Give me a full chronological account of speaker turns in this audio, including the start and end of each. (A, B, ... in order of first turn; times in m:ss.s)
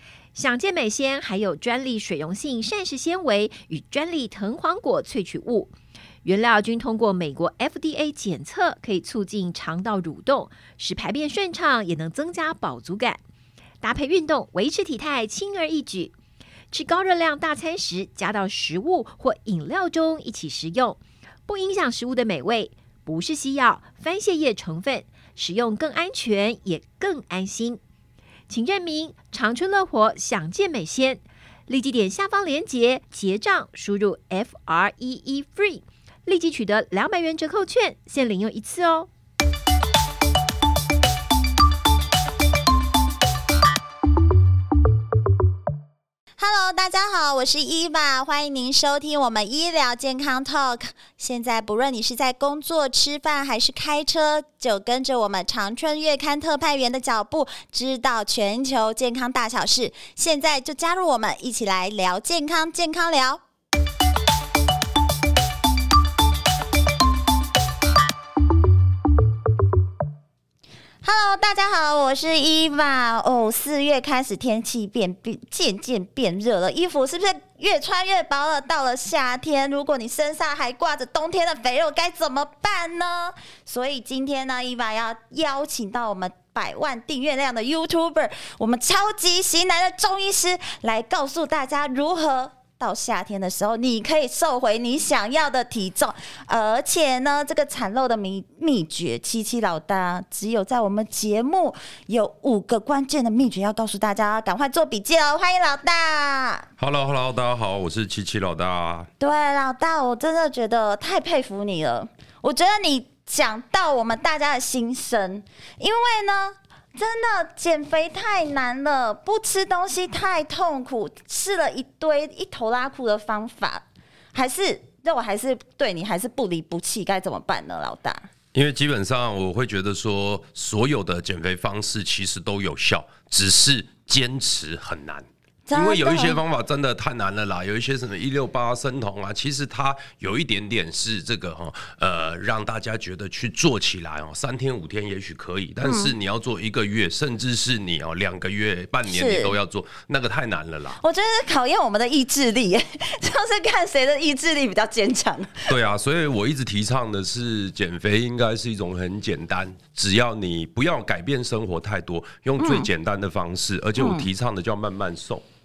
0:00.3-0:05.7 A
0:06.2-0:13.2 A
0:13.8-0:16.1 A
0:16.7-0:27.8 A
0:28.5-0:39.1 A
0:46.4-1:03.4 B
1:11.0-1:46.7 B
1:46.8-1:49.1 C
1:49.2-2:03.8 B
2:04.3-2:08.3 B
2:08.5-2:31.0 C
2:15.7-2:16.4 B
2:25.8-2:26.1 B
2:29.1-2:29.6 B
2:31.0-2:35.7 B
2:35.7-2:45.4 C
2:42.6-2:42.9 B
2:44.0-2:44.3 B